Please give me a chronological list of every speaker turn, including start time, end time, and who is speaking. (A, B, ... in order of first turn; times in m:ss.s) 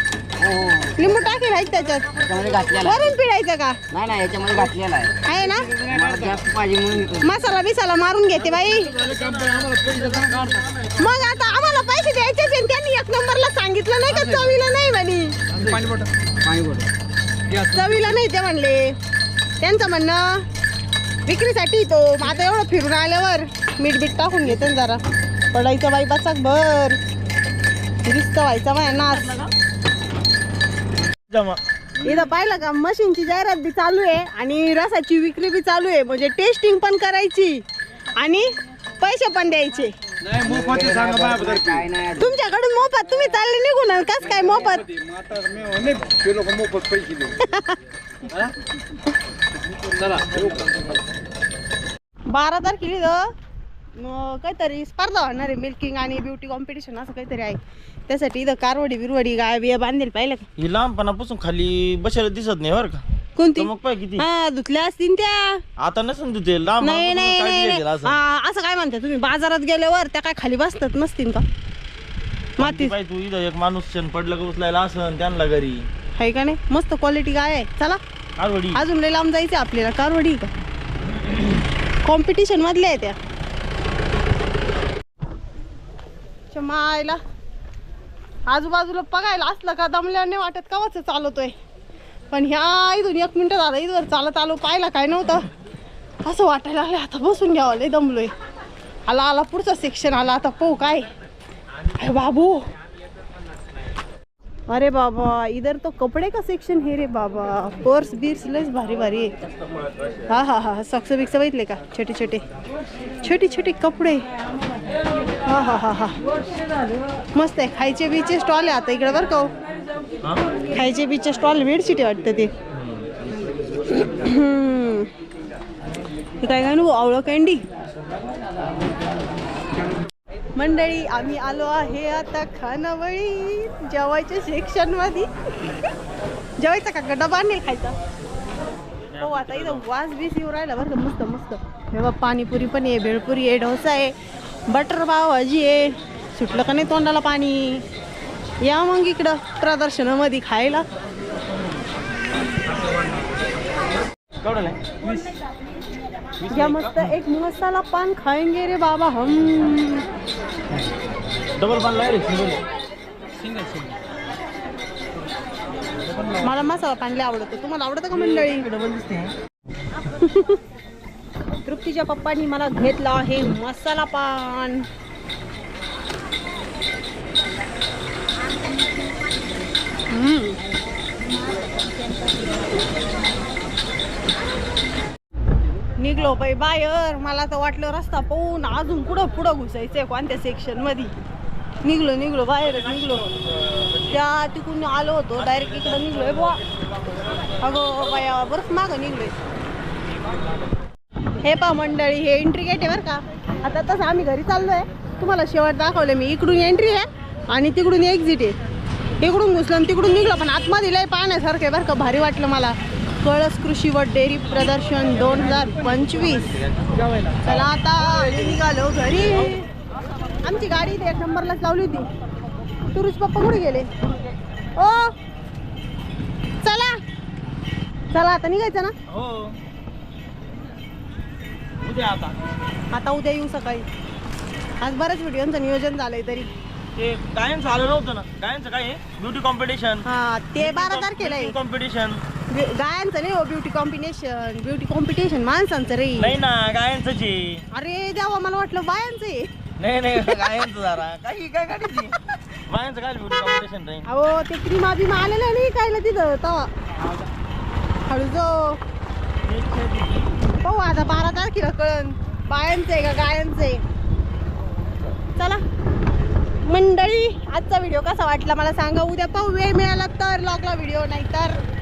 0:00.4-0:01.5 A
0:01.0-0:02.1 B
0:02.1-0:03.2 A
0:02.8-0:03.8 B
0:03.9-0:07.4 A
0:05.2-0:05.7 B
0:07.2-0:09.0 B
0:08.3-0:11.4 C
0:11.0-0:15.4 B
0:15.6-0:16.1 D
0:16.4-0:16.9 A
0:17.5-0:19.0 B
0:19.6-0:20.4 B
0:21.2-0:25.0 B
0:25.5-0:27.0 B
0:28.0-0:29.3 B
0:28.9-0:29.5 C
0:31.3-0:31.6 C
0:32.0-0:37.6 B
0:38.2-0:40.0 B
0:40.3-0:41.6 D
0:40.3-0:42.4 A
0:42.2-0:44.9 B
0:44.9-0:47.3 D
0:47.4-0:47.8 B
0:49.9-0:50.9 D
0:52.3-0:53.3 B
0:54.0-1:00.4 B
1:00.6-1:03.0 C
1:03.4-1:05.6 B
1:03.6-1:04.2 C
1:05.8-1:08.2 C
1:06.8-1:11.4 B
1:12.6-1:15.9 C
1:12.6-1:12.9 B
1:16.2-1:18.0 B
1:18.4-1:18.8 C
1:18.7-1:20.5 B
1:22.0-1:23.2 B
1:26.5-1:27.2 B
1:28.5-1:31.5 B
1:32.3-1:35.5 B
1:36.2-1:38.3 B
1:39.1-1:41.1 B
1:41.9-1:42.6 B
1:44.7-1:49.3 B
1:50.3-1:52.4 B
1:53.2-1:54.2 B
1:55.5-1:56.2 B
1:57.3-1:59.5 B
2:00.7-2:02.5 B
2:03.9-2:05.1 B
2:06.4-2:07.6 B
2:10.6-2:15.8 B
2:16.6-2:18.0 B
2:19.2-2:24.1 B
2:19.2-2:19.8 C
2:24.7-2:27.8 B
2:28.6-2:30.8 B
2:34.4-2:34.8 C
2:36.4-2:37.1 C
2:36.5-2:40.0 B
2:41.6-2:42.6 C
2:46.2-2:46.6 C
2:46.4-2:48.7 B
2:48.1-2:49.3 C
2:50.0-2:50.6 B
2:51.6-2:54.9 B
3:00.1-3:00.6 B
3:06.0-3:11.1 B
3:11.8-3:13.3 B
3:14.1-3:16.6 B
3:17.6-3:19.4 B
3:21.4-3:28.6 B
3:29.2-3:36.5 B
3:37.4-3:39.7 B
3:40.4-3:42.1 B
3:42.9-3:43.9 B
3:44.8-3:45.1 B
3:46.6-3:47.0 B
3:48.1-3:48.9 B
3:49.1-3:49.6 C
3:51.8-3:52.4 C
3:52.9-3:53.8 B
3:54.8-3:56.5 B
3:57.0-4:00.0 C
4:00.0-4:01.6 B
4:00.6-4:02.2 C
4:02.5-4:06.3 B
4:06.2-4:07.6 C
4:07.7-4:09.5 B
4:09.8-4:14.1 C
4:14.1-4:16.7 B
4:18.1-4:18.8 B
4:19.4-4:20.5 C
4:20.6-4:23.8 B
4:25.4-4:25.6 B
4:26.6-4:31.6 B